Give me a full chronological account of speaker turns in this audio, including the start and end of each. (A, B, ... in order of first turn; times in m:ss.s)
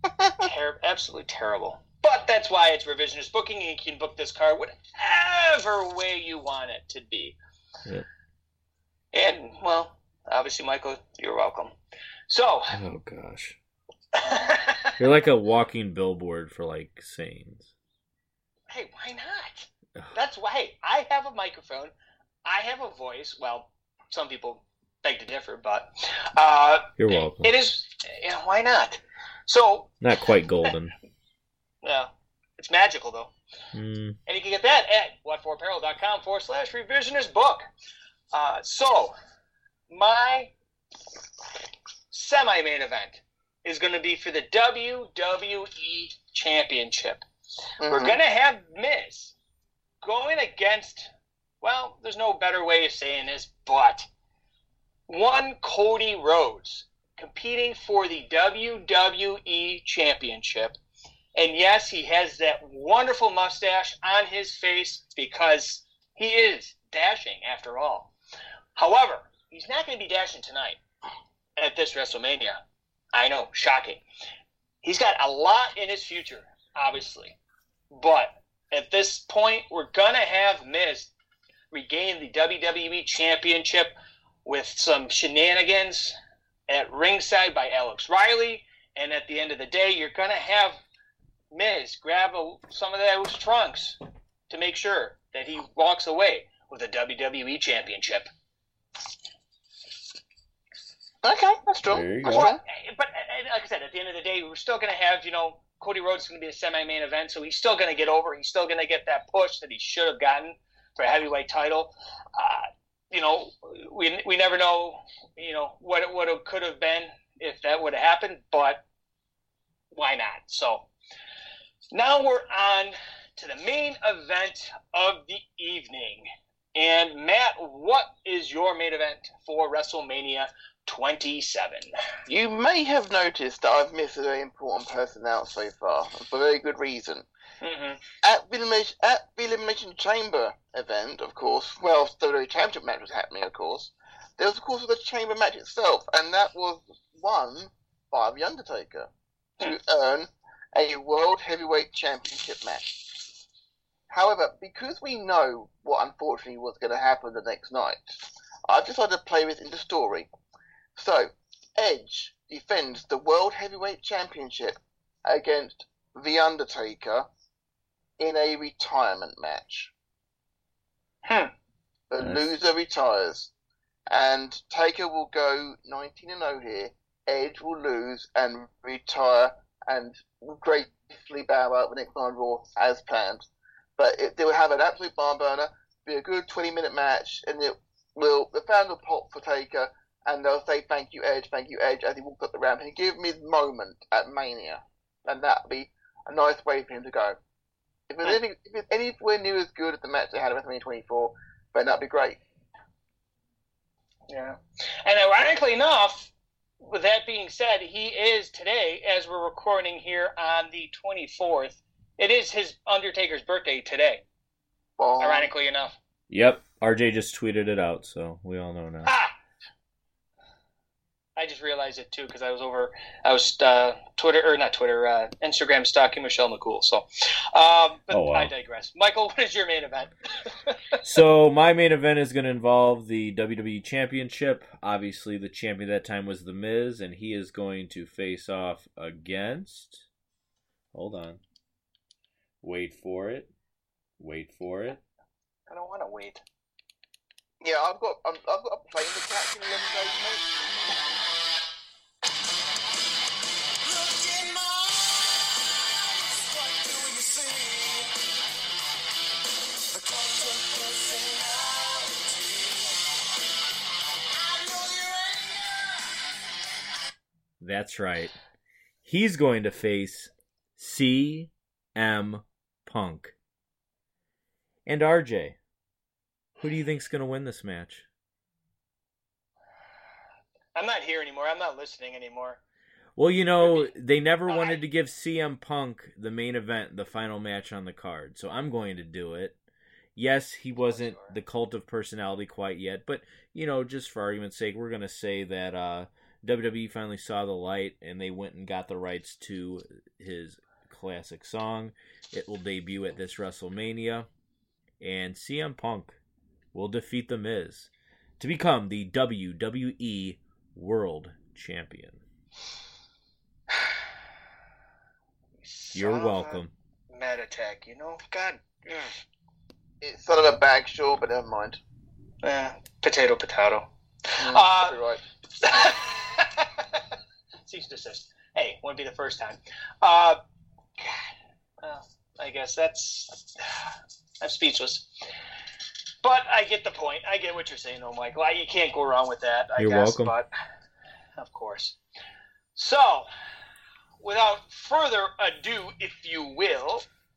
0:00.4-0:07.4 A
0:09.1-0:11.7 A
0:12.3-0:12.8 A
0:12.7-0:13.6 B
0:14.1-0:15.0 A
0:15.0-0:17.7 B
0:18.7-0:21.9 A
0:22.4-0:29.9 A
0:27.0-0:27.5 B
0:30.0-0:31.0 B
0:31.8-0:33.3 A
0:33.7-0:34.2 B
0:34.3-0:37.6 A
0:38.3-0:39.1 A
0:39.9-0:40.5 A
0:42.1-0:47.2 A
0:47.8-0:48.2 C
0:47.8-0:49.3 A
0:50.0-0:54.1 A
0:55.1-1:00.8 A
1:01.3-1:08.1 A
1:08.7-1:10.8 A
1:11.6-1:12.6 A
1:13.1-1:14.0 A
1:14.8-1:17.4 A
1:17.9-1:21.1 A
1:21.7-1:23.9 A
1:24.4-1:26.2 A
1:26.7-1:30.8 A
1:31.5-1:34.0 A
1:34.5-1:38.3 A
1:41.2-1:42.6 C
1:41.9-1:42.5 B
1:42.3-1:58.8 A
1:59.9-2:00.9 A
2:01.9-2:11.9 A
2:12.3-2:17.2 C
2:17.6-2:18.0 A
2:18.2-2:32.9 C
2:34.1-2:40.3 C
2:41.0-2:47.3 C
2:48.2-2:49.9 C
2:51.2-2:51.5 A
2:52.1-2:53.5 C
2:54.1-3:17.4 C
3:18.1-3:22.4 C
3:24.3-3:34.2 A
3:35.0-3:35.5 C
3:35.2-3:36.0 A
3:36.3-3:39.1 B
3:39.0-3:39.3 A
3:41.4-3:51.0 A
3:48.1-3:48.5 B
3:51.0-4:00.0 B
4:00.9-4:01.4 B
4:02.6-4:03.5 B
4:04.2-4:05.0 B
4:05.7-4:06.4 A
4:07.6-4:10.4 C
4:27.6-4:28.3 B
4:29.0-4:33.3 B
4:34.8-4:35.6 B
4:36.6-4:38.0 B
4:40.7-4:42.6 A
4:43.2-4:49.6 B
4:43.6-4:43.9 A
4:44.5-4:44.8 A
4:50.2-5:04.3 B
4:50.8-4:51.4 A
5:05.0-5:06.2 B
5:06.7-5:12.2 B
5:13.8-5:14.0 A
5:15.6-5:19.2 A
5:15.9-5:16.7 B
5:20.0-5:21.8 C
5:22.4-5:25.0 A
5:24.4-5:25.2 C
5:25.6-5:27.1 A
5:27.6-5:30.4 A
5:31.0-5:31.3 A
5:31.8-5:33.9 A
5:34.4-5:35.1 A
5:36.2-5:40.5 A
5:39.8-5:40.3 B
5:41.4-5:42.0 A
5:42.7-5:43.3 A
5:44.2-5:47.0 A